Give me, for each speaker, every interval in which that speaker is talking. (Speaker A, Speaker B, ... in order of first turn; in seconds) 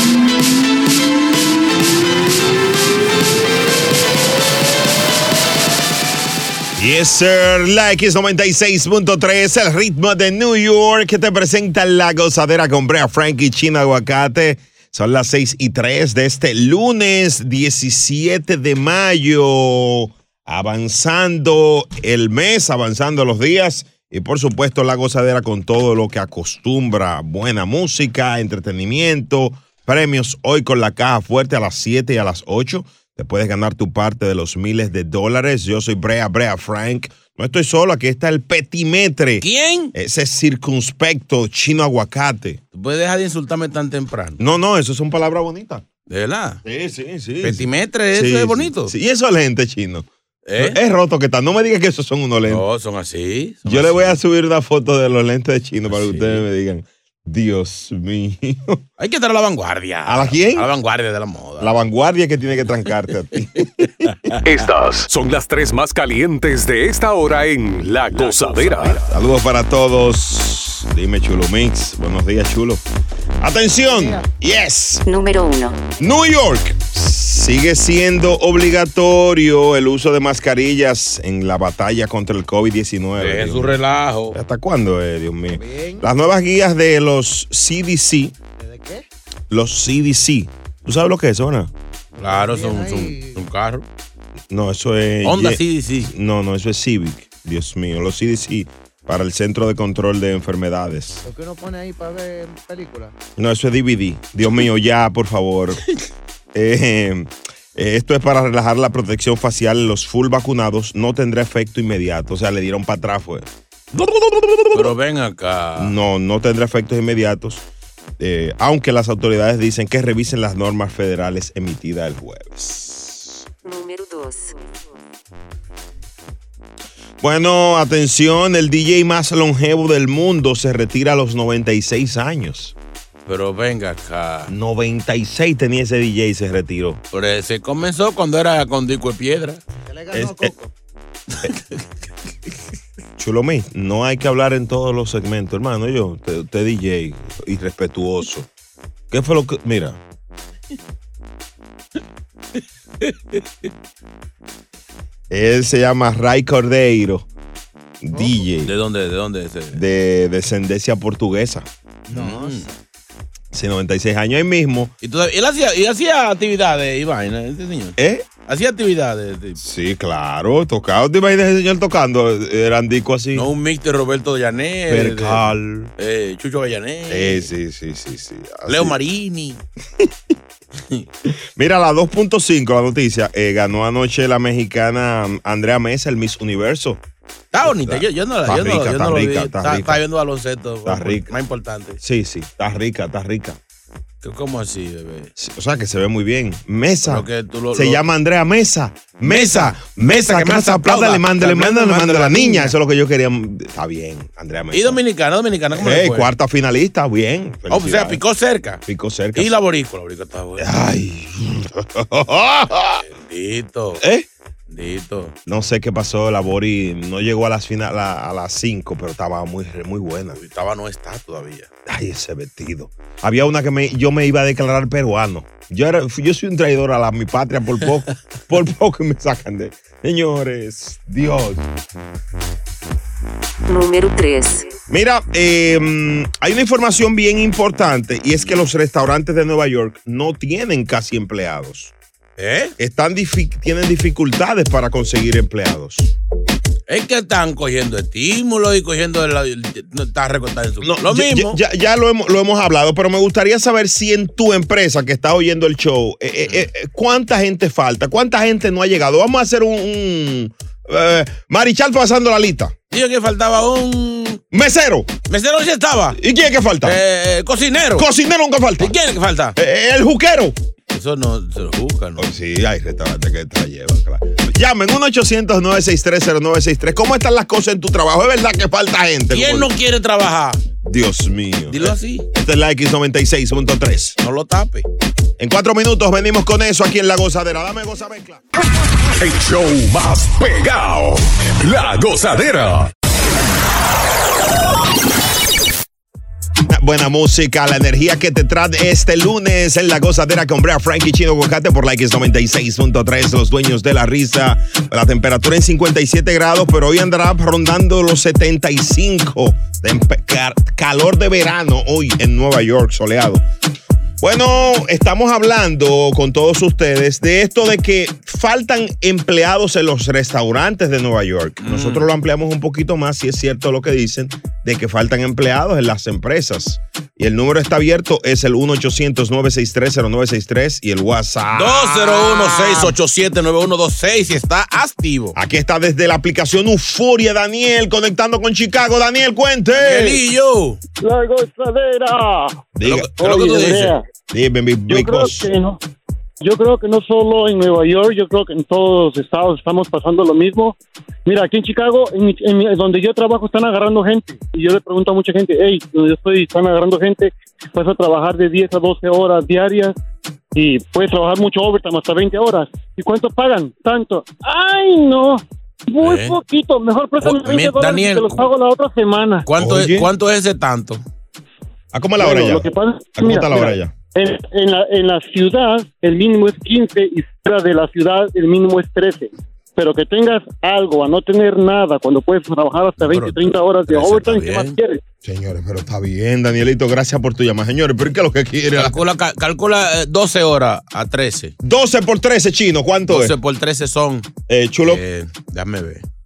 Speaker A: 6.8-42.6, 44.4-45.8, 46.6-50.1, 50.6-52.6, 53.6-58.8, 60.1-60.7, 61.6-63.9, 69.0-72.8, 73.4-75.0, 76.0-83.8, 84.3-88.3, 89.5-91.7, 94.5-101.2, 103.4-105.8, 106.5-113.5, 115.8-117.6, 118.2-123.4, 127.2-132.7, 134.5-137.0, 140.1-140.5, 143.2-148.5, 149.1-150.0, 155.3-157.3, 158.0-158.7, 159.7-161.7, 163.5-164.9, 168.0-168.2, 169.6-173.5, 174.9-175.9, 177.1-179.0, 181.6-187.0, 187.6-190.0, 190.8-191.3, 192.0-193.6, 195.4-205.0, 205.7-208.2, 208.9-209.5, 210.6-213.0, 214.0-214.3, 215.5-220.4, 221.8-231.6, 234.9-241.9, 242.8-246.1, 250.8-262.7, 264.5-265.1, 266.1-267.0, 267.9-268.9, 269.6-270.5, 272.2-279.7, 280.8-284.1, 285.4-288.4, 296.7-313.4, 314.2-332.9, 335.3-340.2, 342.8-343.1, 344.3-345.5, 369.6-370.1, 371.9-373.9, 385.2-389.0, 391.6-393.3, 394.5-395.0
Speaker B: 39.4-39.9, 42.7-44.4, 46.1-46.6, 47.4-48.9, 50.5-50.8, 52.5-54.2, 55.9-56.4, 59.0-61.8, 68.1-69.0, 83.2-84.3, 92.2-93.8, 95.2-96.1, 114.7-115.9, 133.2-134.5, 137.1-139.6, 153.0-153.4, 158.6-159.8, 162.1-162.7, 165.0-167.9, 168.5-169.6, 173.3-177.5, 178.7-179.6, 187.5-192.0, 194.2-195.3, 197.1-198.0, 199.2-202.7, 204.7-206.3, 207.7-208.8, 209.3-210.8, 213.0-214.0, 214.7-215.3, 220.3-221.7, 242.4-242.7, 246.9-251.6, 262.9-264.4, 265.3-266.2, 266.8-268.1, 268.8-269.5, 270.9-272.3, 279.3-280.6, 281.7-282.3, 284.2-284.9, 321.6-322.1, 331.5-335.4, 339.7-340.8, 342.8-344.0, 366.0-366.4, 367.2-368.4, 369.4-371.0, 383.0-384.8, 388.8-391.5, 393.1-394.3, 394.8-396.0
Speaker C: 64.4-69.0, 289.1-292.9
Speaker D: 73.6-74.2, 85.5-86.1, 88.6-89.0, 92.2-93.4, 101.2-103.1, 139.9-140.7, 162.1-162.8
Speaker E: 75.0-75.9, 123.6-124.9, 233.7-234.7
Speaker F: 341.0-342.6, 343.2-344.0, 344.9-345.8, 346.4-359.9, 360.5-369.5, 372.2-385.0